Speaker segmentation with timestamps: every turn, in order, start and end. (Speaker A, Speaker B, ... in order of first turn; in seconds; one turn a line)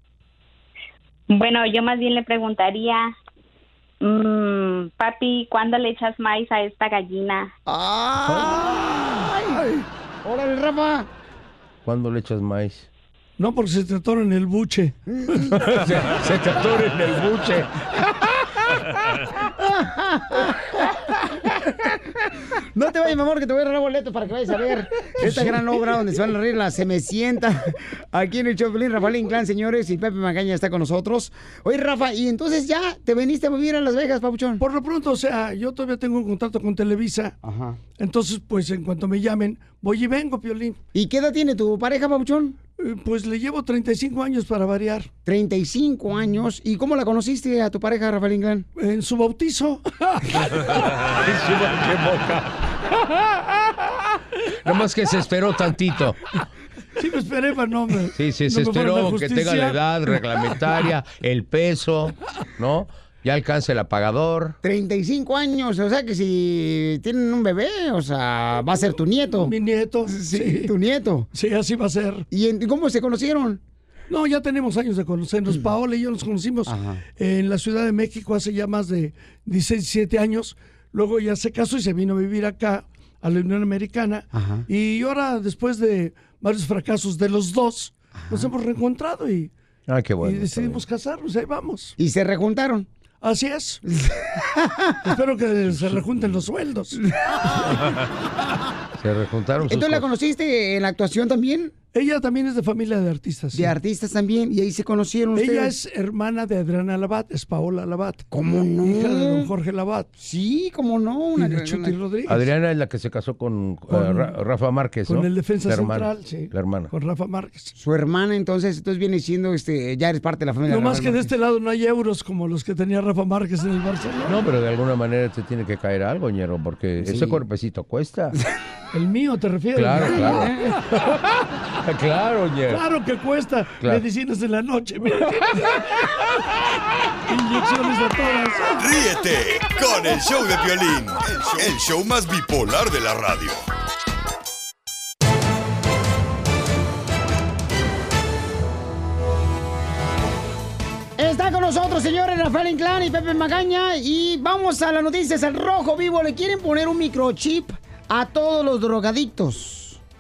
Speaker A: 1.3-3.1
Speaker A: 4.0-7.5
Speaker B: 7.7-11.1
Speaker C: 8.3-8.6
Speaker C: 11.8-12.9
Speaker D: 13.4-15.0
Speaker B: 15.1-15.4
Speaker C: 15.5-17.7
Speaker B: 19.7-20.8
Speaker B: 22.7-34.6
Speaker D: 34.6-37.4
Speaker B: 37.4-37.8
Speaker D: 38.0-40.8
Speaker B: 40.9-42.6
Speaker D: 42.8-45.1
Speaker B: 45.3-48.7
Speaker D: 48.8-50.3
Speaker C: 51.2-52.5
Speaker C: 54.6-56.2
Speaker D: 57.0-59.8
Speaker C: 58.1-64.6
Speaker B: 64.6-69.5
Speaker D: 69.4-70.7
Speaker B: 70.1-71.3
Speaker D: 71.3-72.3
Speaker B: 72.3-73.6
Speaker D: 74.1-89.5
Speaker B: 76.7-77.0
Speaker B: 84.3-84.7
Speaker B: 88.2-88.5
Speaker C: 89.9-90.8
Speaker D: 90.2-92.0
Speaker B: 92.0-92.9
Speaker D: 93.2-93.8
Speaker B: 93.9-95.0
Speaker D: 95.0-97.0
Speaker C: 95.7-96.5
Speaker C: 99.0-100.1
Speaker B: 99.7-101.7
Speaker D: 101.9-103.7
Speaker B: 103.5-105.7
Speaker D: 105.3-108.2
Speaker B: 108.3-109.5
Speaker D: 108.8-110.1
Speaker B: 110.2-112.0
Speaker D: 111.4-112.4
Speaker C: 112.3-116.9
Speaker D: 113.9-114.2
Speaker D: 115.1-117.7
Speaker B: 117.8-121.3
Speaker D: 120.7-124.4
Speaker C: 124.3-128.3
Speaker B: 127.0-127.4
Speaker D: 128.9-130.5
Speaker C: 129.8-130.5
Speaker C: 131.8-132.8
Speaker D: 132.7-136.0
Speaker C: 133.8-134.1
Speaker D: 137.3-138.8
Speaker E: 138.8-143.7
Speaker B: 151.2-160.0